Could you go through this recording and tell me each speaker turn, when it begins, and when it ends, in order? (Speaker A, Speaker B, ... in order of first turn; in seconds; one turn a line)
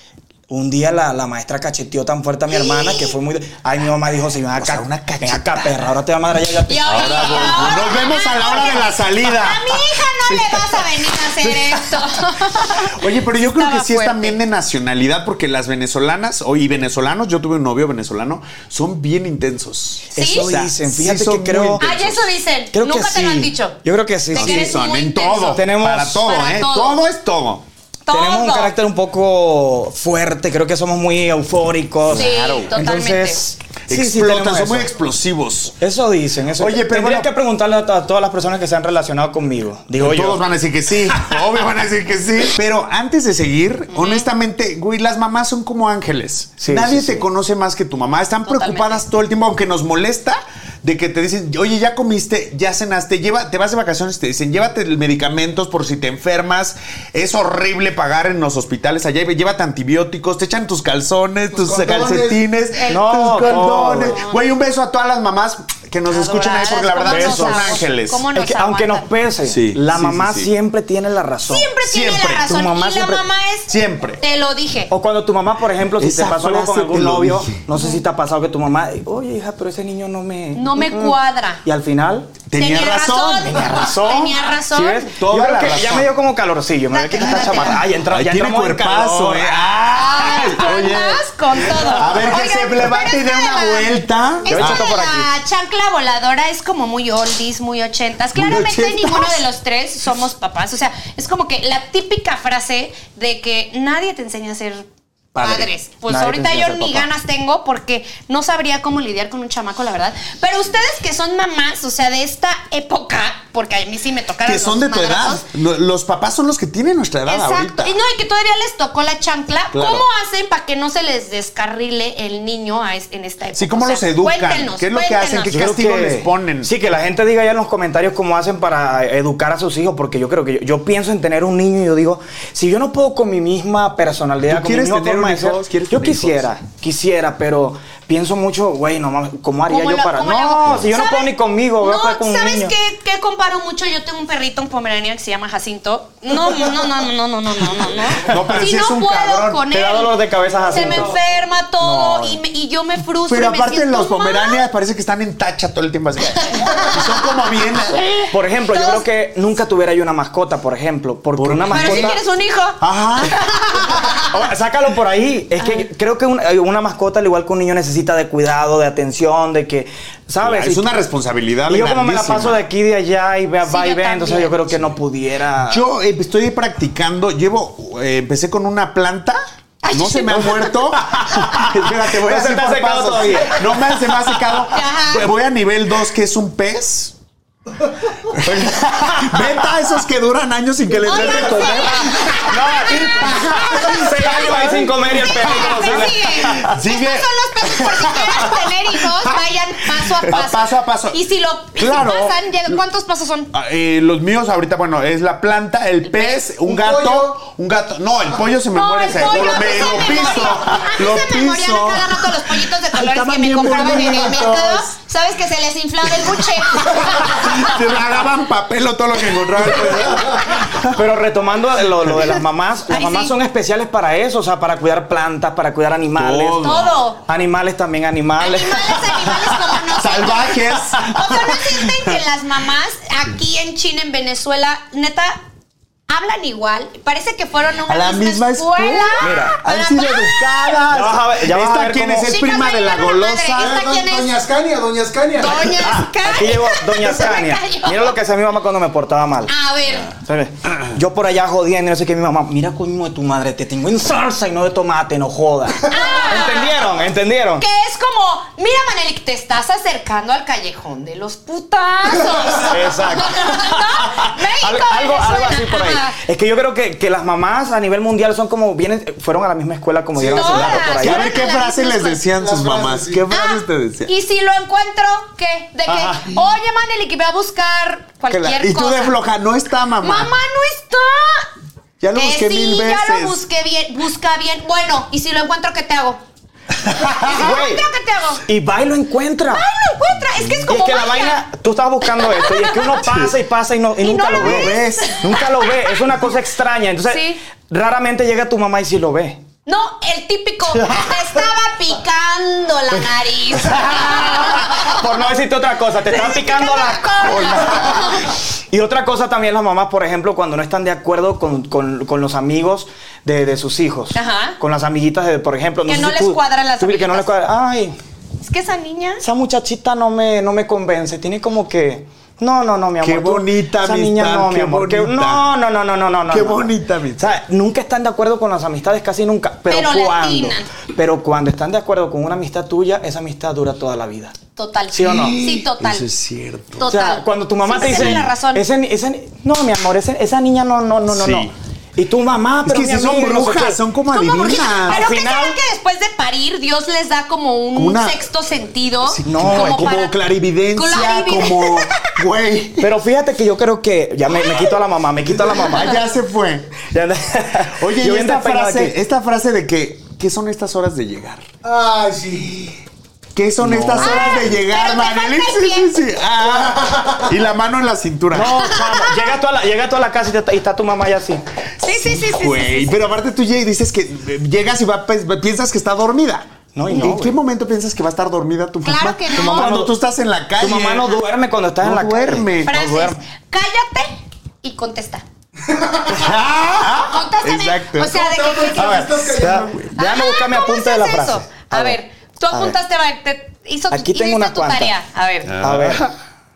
Speaker A: 0.5-7.8
Speaker B: 2.5-3.1
Speaker C: 4.5-5.9
Speaker B: 6.7-14.4
Speaker C: 6.9-12.0
Speaker C: 12.8-22.3
Speaker A: 20.1-21.9
Speaker B: 20.2-20.5
Speaker B: 21.8-23.8
Speaker A: 22.7-24.8
Speaker B: 24.3-25.6
Speaker C: 24.4-27.7
Speaker A: 25.5-26.3
Speaker B: 26.3-27.0
Speaker B: 28.1-28.7
Speaker A: 28.1-34.9
Speaker B: 32.1-33.4
Speaker C: 33.9-35.8
Speaker A: 35.8-40.4
Speaker C: 36.6-37.3
Speaker C: 40.0-68.2
Speaker B: 43.9-44.3
Speaker A: 46.6-47.3
Speaker B: 48.5-49.0
Speaker D: 61.5-62.4
Speaker B: 62.8-64.4
Speaker A: 62.9-64.2
Speaker B: 66.1-69.1
Speaker A: 67.1-67.8
Speaker A: 68.3-71.7
Speaker C: 69.5-70.5
Speaker B: 71.5-74.9
Speaker C: 71.8-72.5
Speaker A: 72.4-73.2
Speaker C: 73.7-74.2
Speaker A: 74.9-82.3
Speaker C: 76.0-77.6
Speaker B: 80.5-81.6
Speaker C: 82.5-83.9
Speaker B: 82.5-85.1
Speaker A: 83.7-89.6
Speaker C: 85.2-86.1
Speaker B: 86.9-87.8
Speaker C: 87.3-94.9
Speaker B: 89.9-104.9
Speaker A: 91.7-92.2
Speaker A: 94.5-95.3
Speaker C: 98.3-99.4
Speaker C: 105.3-105.7
Speaker B: 105.4-115.5
Speaker A: 106.1-107.1
Speaker C: 114.5-118.0
Speaker B: 117.3-125.5
Speaker C: 119.7-120.1
Speaker C: 123.5-126.7
Speaker A: 125.5-142.7
Speaker C: 134.5-136.5
Speaker B: 139.7-150.2
Speaker C: 148.3-149.7
Speaker A: 149.7-151.2
Speaker B: 150.7-154.6
Speaker A: 151.8-152.4
Speaker C: 153.3-158.1
Speaker B: 156.4-157.1
Speaker B: 157.9-159.0
Speaker A: 158.3-162.2
Speaker C: 161.4-162.2
Speaker B: 161.7-164.3
Speaker C: 162.8-163.9
Speaker A: 164.3-171.0
Speaker C: 170.4-172.6
Speaker A: 171.7-175.8
Speaker B: 173.7-174.8
Speaker C: 175.6-179.4
Speaker B: 179.8-180.7
Speaker C: 179.9-187.2
Speaker A: 181.0-183.8
Speaker B: 184.7-185.3
Speaker C: 188.3-192.5
Speaker A: 188.7-189.5
Speaker B: 191.0-203.5
Speaker A: 191.1-191.7
Speaker A: 192.4-196.7
Speaker C: 193.2-196.1
Speaker C: 196.7-199.4
Speaker C: 200.0-201.2
Speaker C: 201.8-202.8
Speaker C: 203.5-214.9
Speaker B: 206.1-206.4
Speaker D: 206.6-207.4
Speaker B: 208.7-217.6
Speaker D: 209.3-210.2
Speaker A: 213.4-214.2
Speaker C: 216.1-221.0
Speaker A: 220.8-226.7
Speaker C: 222.0-222.3
Speaker B: 222.9-223.3
Speaker C: 226.2-227.0
Speaker B: 226.6-227.2
Speaker A: 227.3-229.3
Speaker B: 228.4-235.4
Speaker C: 229.9-232.2
Speaker B: 236.1-240.7
Speaker C: 237.9-243.8
Speaker A: 239.2-239.6
Speaker A: 240.9-242.3
Speaker B: 242.3-244.3
Speaker D: 243.6-245.9
Speaker B: 245.4-248.2
Speaker A: 245.9-249.5
Speaker B: 249.5-250.1
Speaker A: 250.1-257.6
Speaker B: 255.9-257.1
Speaker B: 257.6-266.2
Speaker A: 262.6-271.3
Speaker C: 270.2-274.1
Speaker B: 270.2-272.2
Speaker D: 272.4-273.2
Speaker B: 273.3-279.2
Speaker A: 275.9-276.4
Speaker C: 278.3-280.3
Speaker B: 280.0-281.5
Speaker C: 282.0-283.4
Speaker B: 282.1-286.2
Speaker C: 286.9-287.5
Speaker B: 287.1-288.4
Speaker A: 287.3-287.9
Speaker A: 288.5-289.6
Speaker B: 289.5-291.4
Speaker C: 290.4-290.8
Speaker A: 290.7-299.4
Speaker B: 292.2-293.0
Speaker B: 294.0-295.5
Speaker C: 294.3-295.2
Speaker B: 297.1-297.4
Speaker B: 299.7-305.0
Speaker A: 300.8-301.1
Speaker A: 303.6-308.1
Speaker B: 306.1-308.3
Speaker C: 307.2-308.2
Speaker A: 308.7-318.0
Speaker B: 314.1-314.6
Speaker B: 315.9-317.3
Speaker B: 318.4-319.2
Speaker A: 319.2-334.4
Speaker C: 323.0-325.5
Speaker C: 326.3-327.4
Speaker B: 329.7-330.7
Speaker B: 334.6-336.1
Speaker A: 334.9-335.4
Speaker C: 335.0-336.9
Speaker B: 336.8-338.6
Speaker A: 336.9-343.8
Speaker C: 337.8-338.3
Speaker C: 341.1-341.5
Speaker C: 342.6-345.1
Speaker B: 344.1-350.1
Speaker A: 344.9-345.6
Speaker C: 347.7-348.3
Speaker C: 349.0-352.9
Speaker A: 349.2-350.0
Speaker B: 350.8-352.1
Speaker A: 352.8-356.0
Speaker B: 354.4-354.7
Speaker C: 355.5-356.7
Speaker A: 356.9-359.0
Speaker C: 357.6-361.4
Speaker D: 361.6-362.8
Speaker C: 363.4-368.8
Speaker A: 363.6-364.5
Speaker B: 364.0-365.9
Speaker D: 366.6-367.2
Speaker A: 368.3-371.4
Speaker B: 371.8-373.0
Speaker C: 371.9-381.1
Speaker A: 376.8-377.4
Speaker B: 378.8-379.7
Speaker A: 379.3-379.9
Speaker A: 380.6-383.2
Speaker C: 381.8-382.8
Speaker B: 382.6-385.2
Speaker D: 385.7-386.3
Speaker C: 386.1-388.2
Speaker B: 386.8-389.3
Speaker D: 388.1-389.8
Speaker A: 388.8-392.0
Speaker B: 390.0-395.6
Speaker A: 393.9-394.9
Speaker C: 395.5-396.1
Speaker A: 395.6-396.1